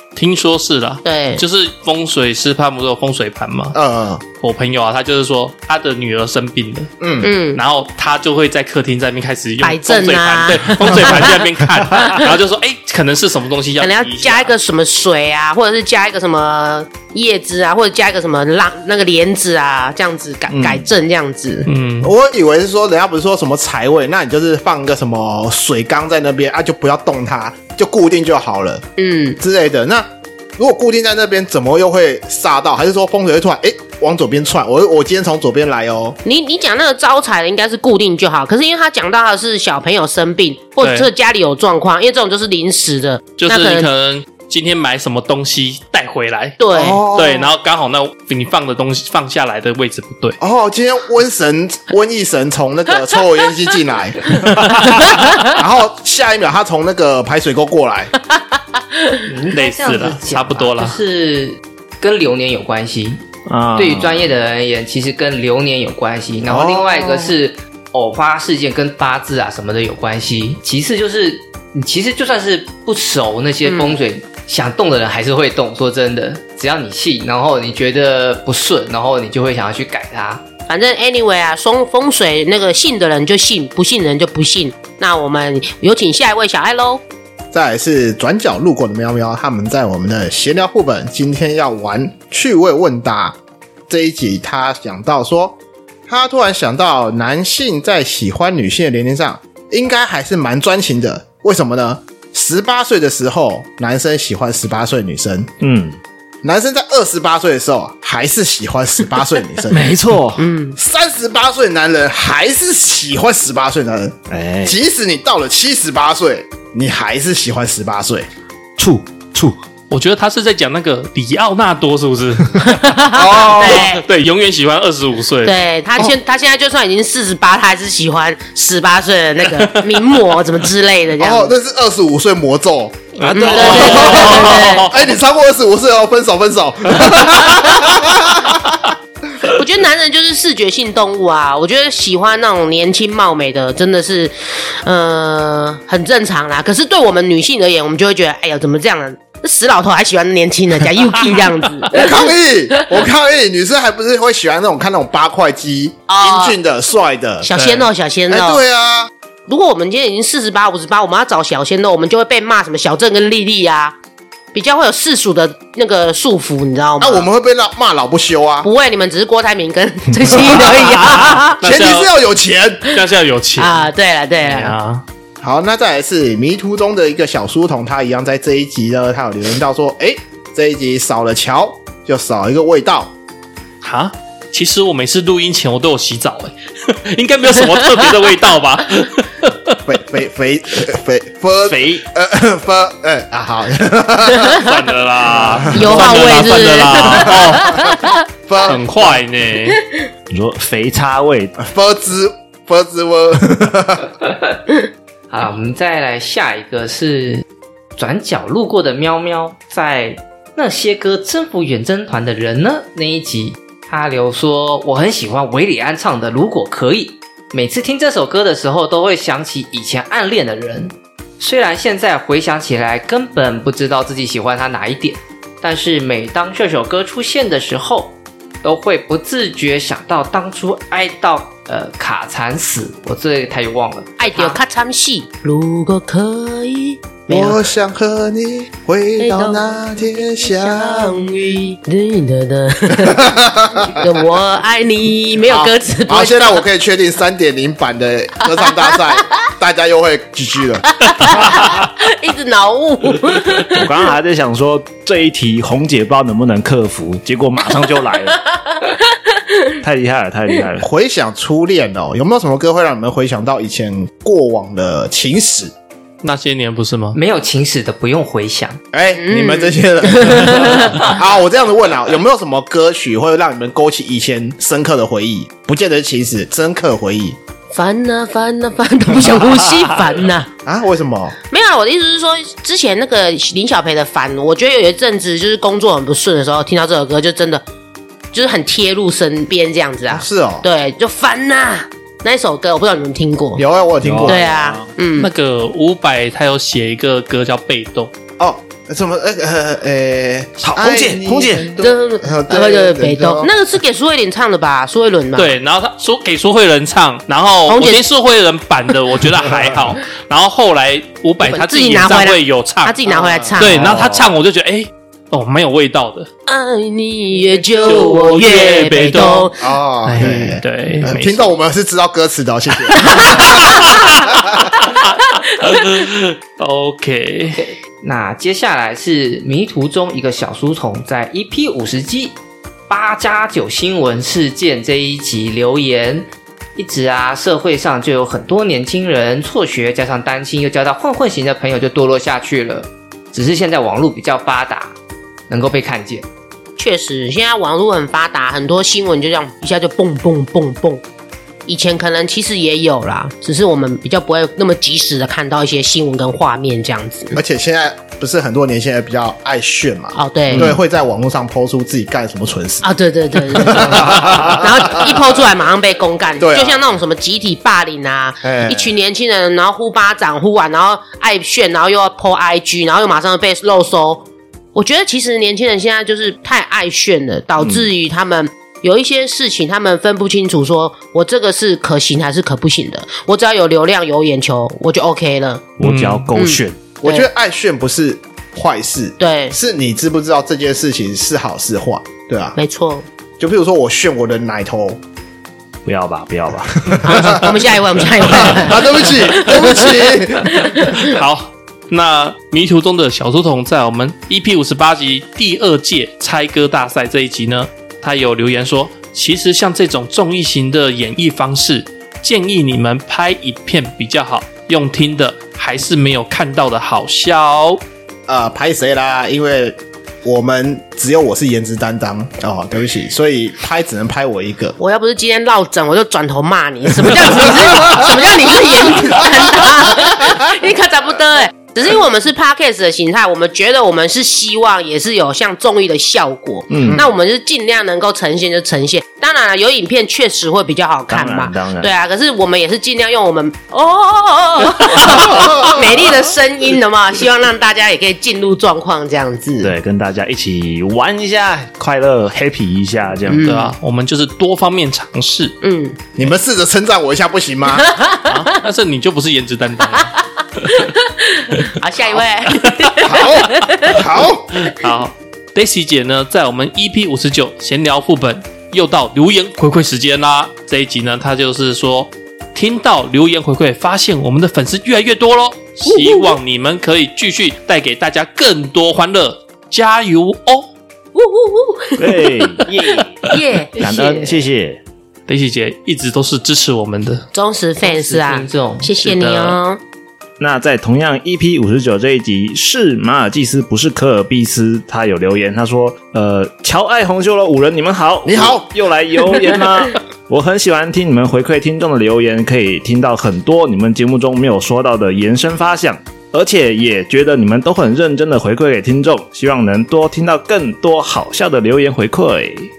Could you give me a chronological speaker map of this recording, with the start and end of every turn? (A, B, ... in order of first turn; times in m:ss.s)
0:00.2-0:03.8 A
0:01.0-0:01.4 B
0:03.7-0:04.2 C
0:04.4-0:07.0 A
0:07.0-0:07.3 C
0:07.2-0:07.6 B
0:07.5-0:14.5 A
0:09.6-0:11.4 B
0:13.8-0:21.7 B
0:20.5-0:20.9 D
0:21.7-0:22.1 A
0:22.0-0:28.8 C
0:29.0-0:29.4 B
0:29.4-0:36.2 C
0:36.2-0:43.9 B
0:40.8-0:41.1 A
0:43.4-0:46.6 A
0:46.6-0:47.1 B
0:46.7-0:47.5 C
0:47.1-0:50.4 A
0:50.4-0:54.7 C
0:55.1-0:55.5 B
0:55.3-0:58.1 C
0:59.3-1:03.2 E
0:59.5-1:01.0 A
1:03.5-1:04.3 D
1:03.8-1:20.4 E
1:06.5-1:07.4 C
1:13.6-1:14.0 B
1:20.7-1:27.0 B
1:27.5-1:33.4 C
1:33.9-1:35.6 C
1:36.1-1:45.5 C
1:45.6-1:46.0 D
1:46.4-1:50.0 C
1:49.7-1:50.5 D
1:50.4-1:50.8 B
1:50.8-1:58.3 C
1:54.3-1:54.8 D
1:58.8-1:59.6 D
1:59.9-2:02.8 A
2:02.6-2:04.0 B
2:03.1-2:03.9 C
2:03.5-2:05.6 A
2:05.4-2:11.5 B
2:09.6-2:10.2 A
2:11.2-2:19.0 C
2:13.3-2:13.9 D
2:13.3-2:14.9 B
2:13.4-2:15.0 A
2:19.4-2:32.9 B
2:31.9-2:39.1 C
2:36.1-2:36.6 B
2:37.4-2:38.6 B
2:39.5-2:44.0 B
2:44.5-2:47.3 B
2:47.0-2:48.7 C
2:48.6-2:51.6 B
2:50.2-2:52.9 C
2:51.6-2:52.1 A
2:52.9-2:55.0 A
2:53.6-2:54.8 B
2:55.4-3:03.1 C
3:03.8-3:09.8 A
3:09.8-3:14.6 C
3:11.7-3:12.0 D
3:14.4-3:14.6 B
3:14.5-3:17.8 A
3:15.3-3:16.3 C
3:15.7-3:18.1 B
3:17.0-3:19.2 C
3:18.6-3:19.8 A
3:20.3-3:21.6 D
3:21.6-3:24.1 C
3:25.3-3:27.4 E
3:28.0-3:54.6 E
3:54.2-3:57.6 B
3:57.3-4:01.3 C
3:59.2-3:59.7 B
4:00.4-4:06.6 B
4:02.9-4:04.1 C
4:05.5-4:11.5 C
4:08.6-4:09.3 B
4:11.0-4:14.0 B
4:13.7-4:18.5 D
4:19.8-4:20.9 D
4:20.8-4:25.7 C
4:26.2-4:27.2 A
4:27.1-4:28.8 E
4:28.9-4:37.4 C
4:29.2-4:31.2 B
4:37.7-4:40.5 B
4:40.6-4:41.4 C
4:41.5-4:47.6 B
4:48.3-4:53.6 B
4:50.1-4:50.7 C
4:53.6-4:54.5 C
4:54.0-4:54.9 D
4:54.3-4:55.3 B
4:55.2-4:58.1 A
4:58.4-5:03.5 C
5:00.6-5:01.7 D
5:01.8-5:05.5 B
5:05.3-5:13.0 A
5:07.7-5:08.0 B
5:11.4-5:13.9 B
5:13.1-5:14.0 C
5:13.6-5:16.3 A
5:13.8-5:14.2 D
5:16.5-5:19.7 B
5:17.8-5:19.5 A
5:19.6-5:24.7 C
5:20.0-5:21.5 A
5:23.0-5:23.6 B
5:23.2-5:27.6 A
5:27.6-5:32.4 E
5:32.9-5:45.0 E
5:45.5-5:46.3 E
5:46.8-5:51.0 B
5:51.7-5:57.4 B
5:57.4-6:05.3 C
6:00.2-6:00.7 B
6:02.8-6:25.7 B
6:06.4-6:06.8 C
6:08.4-6:09.0 C
6:17.6-6:17.9 D
6:25.8-6:27.0 D
6:25.8-6:26.3 A
6:26.4-6:27.3 B
6:27.0-6:32.6 C
6:29.2-6:29.6 B
6:32.6-6:33.0 B
6:33.4-6:35.0 C
6:35.8-6:37.2 D
6:36.8-6:37.6 C
6:37.0-6:41.2 B
6:38.2-6:40.6 C
6:40.8-6:57.8 A
6:58.3-7:04.8 C
7:04.8-7:29.7 B
7:07.2-7:08.3 C
7:08.9-7:09.4 C
7:16.7-7:17.1 D
7:21.1-7:21.9 D
7:29.6-7:33.5 D
7:33.3-7:33.7 B
7:33.4-7:35.6 A
7:35.6-7:36.0 B
7:36.2-7:37.9 C
7:37.7-7:38.4 B
7:38.3-7:40.1 A
7:39.9-7:44.1 B
7:42.5-7:43.0 A
7:43.0-7:44.6 C
7:44.6-8:00.7 A
7:55.9-7:56.4 B
8:01.2-8:02.7 B
8:02.0-8:04.8 D
8:03.2-8:03.8 B
8:03.8-8:04.4 E
8:05.3-8:07.3 A
8:07.3-8:09.8 B
8:07.8-8:08.9 E
8:09.0-8:09.6 A
8:10.4-8:32.7 D
8:18.2-8:18.7 C